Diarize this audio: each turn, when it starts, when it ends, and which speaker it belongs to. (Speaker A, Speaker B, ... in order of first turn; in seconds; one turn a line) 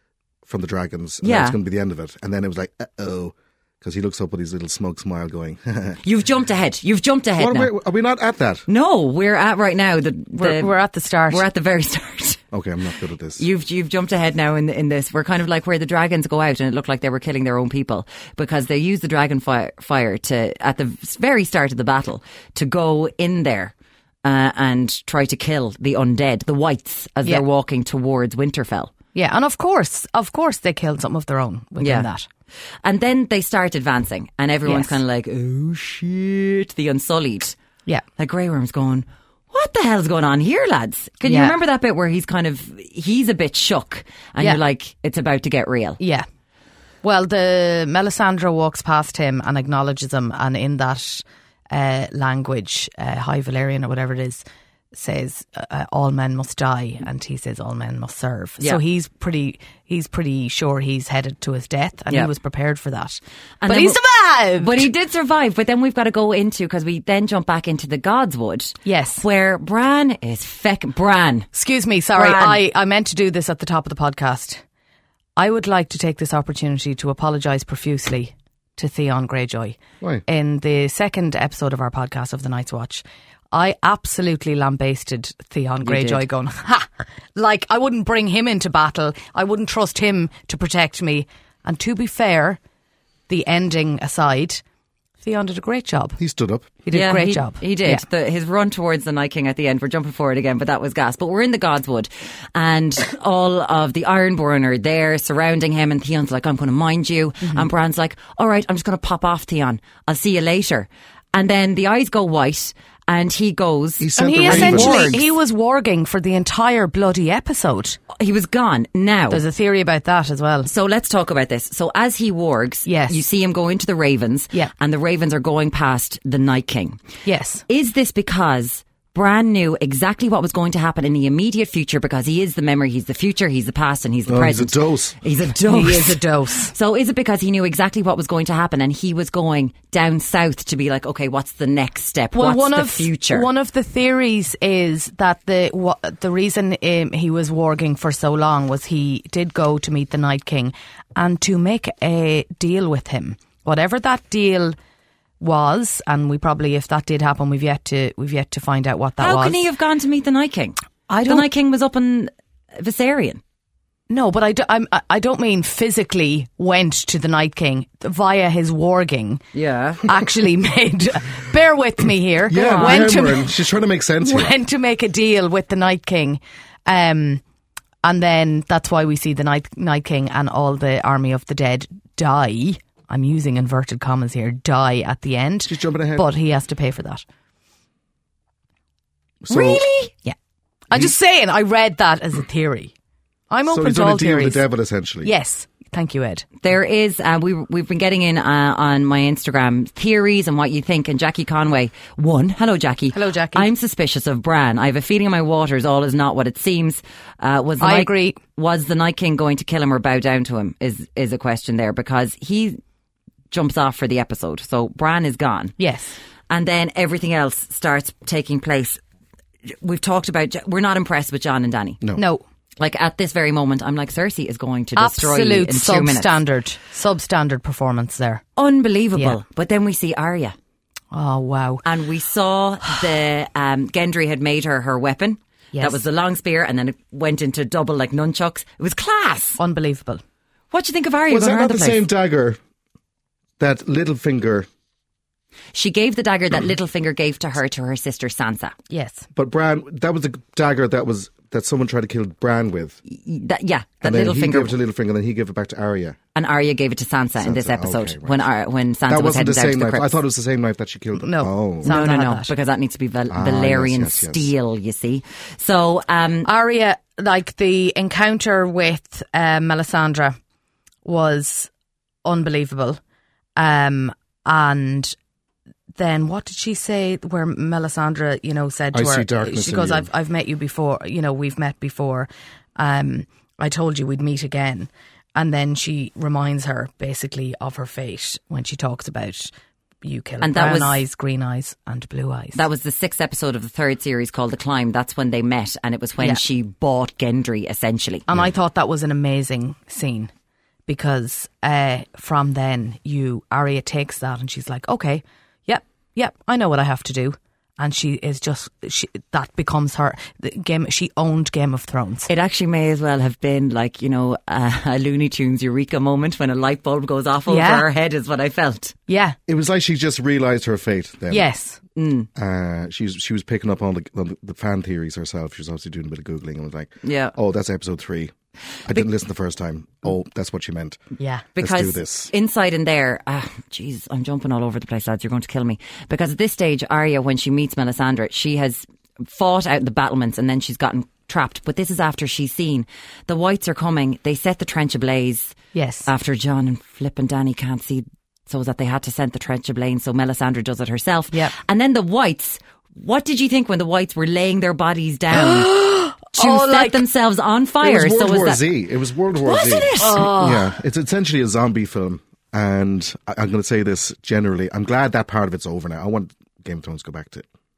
Speaker A: 0.5-6.0
Speaker B: 1.2-1.6
Speaker B: 6.0-7.7
Speaker A: 7.4-8.7
Speaker B: 8.7-10.8
Speaker C: 10.3-11.4
Speaker B: 11.3-12.4
Speaker A: 12.5-13.4
Speaker B: 13.4-23.7
Speaker B: 24.2-28.9
Speaker C: 29.1-32.3
Speaker B: 31.8-32.1
Speaker B: 32.8-37.5
Speaker C: 34.6-35.0
Speaker B: 38.2-46.0
Speaker C: 41.2-41.6
Speaker C: 46.0-46.2
Speaker C: 47.0-64.9
Speaker B: 63.6-64.0
Speaker B: 64.6-71.5
Speaker C: 68.8-69.2
Speaker C: 71.5-74.6
Speaker B: 72.2-72.6
Speaker C: 75.3-92.6
Speaker A: 85.9-86.2
Speaker C: 93.3-94.6
Speaker C: 95.2-96.2
Speaker A: 96.2-96.7
Speaker C: 96.8-98.0
Speaker B: 96.9-115.2
Speaker A: 114.0-115.2
Speaker C: 114.2-118.0
Speaker B: 118.1-119.4
Speaker C: 119.3-120.7
Speaker B: 120.6-127.0
Speaker C: 122.8-123.2
Speaker C: 127.2-127.6
Speaker B: 127.7-143.5
Speaker A: 134.3-135.1
Speaker C: 135.7-136.7
Speaker C: 142.3-154.8
Speaker C: 155.4-159.6
Speaker B: 159.2-163.4
Speaker C: 161.1-161.4
Speaker C: 164.1-169.4
Speaker B: 169.5-170.0
Speaker C: 170.0-173.6
Speaker A: 172.5-174.5
Speaker B: 172.5-173.1
Speaker C: 174.2-177.4
Speaker C: 178.0-187.2
Speaker A: 185.7-186.2
Speaker A: 189.4-189.8
Speaker B: 189.5-190.1
Speaker C: 190.9-192.9
Speaker C: 193.5-194.6
Speaker A: 193.7-195.3
Speaker C: 195.2-196.5
Speaker B: 196.6-212.8
Speaker C: 203.1-203.7
Speaker C: 207.8-208.4
Speaker B: 213.5-215.7
Speaker C: 215.8-216.1
Speaker B: 216.5-219.0
Speaker B: 219.7-222.0
Speaker C: 222.2-222.4
Speaker B: 222.8-226.3
Speaker C: 224.9-228.4
Speaker B: 228.6-230.6
Speaker C: 231.1-231.8
Speaker B: 231.8-239.6
Speaker C: 235.7-236.0
Speaker C: 239.6-240.2
Speaker B: 240.7-242.0
Speaker A: 241.3-242.6
Speaker A: 243.6-244.7
Speaker B: 245.7-248.7
Speaker C: 248.9-249.3
Speaker A: 249.3-253.0
Speaker B: 253.1-254.8
Speaker A: 254.0-256.2
Speaker B: 256.3-260.1
Speaker A: 257.4-258.4
Speaker A: 259.1-261.9
Speaker C: 261.2-262.5
Speaker B: 261.8-266.5
Speaker A: 263.3-264.5
Speaker C: 266.4-270.4
Speaker C: 271.0-271.7
Speaker C: 272.2-273.0
Speaker C: 273.6-275.1
Speaker C: 275.9-289.5
Speaker A: 278.9-280.1
Speaker C: 290.0-292.6
Speaker B: 290.4-291.0
Speaker B: 292.5-298.2
Speaker C: 298.3-300.3
Speaker C: 300.9-312.3
Speaker B: 312.3-318.9
Speaker C: 317.5-317.9
Speaker C: 319.1-319.4
Speaker A: 319.5-321.5
Speaker C: 321.3-321.8
Speaker B: 321.9-322.3
Speaker A: 322.4-328.3
Speaker B: 327.0-327.3
Speaker A: 328.9-331.0
Speaker C: 331.2-331.5
Speaker A: 331.6-332.3
Speaker B: 331.6-355.7
Speaker C: 345.7-346.1
Speaker C: 355.3-357.0
Speaker B: 356.3-358.6
Speaker A: 357.8-367.4
Speaker B: 359.4-360.3
Speaker C: 360.0-360.7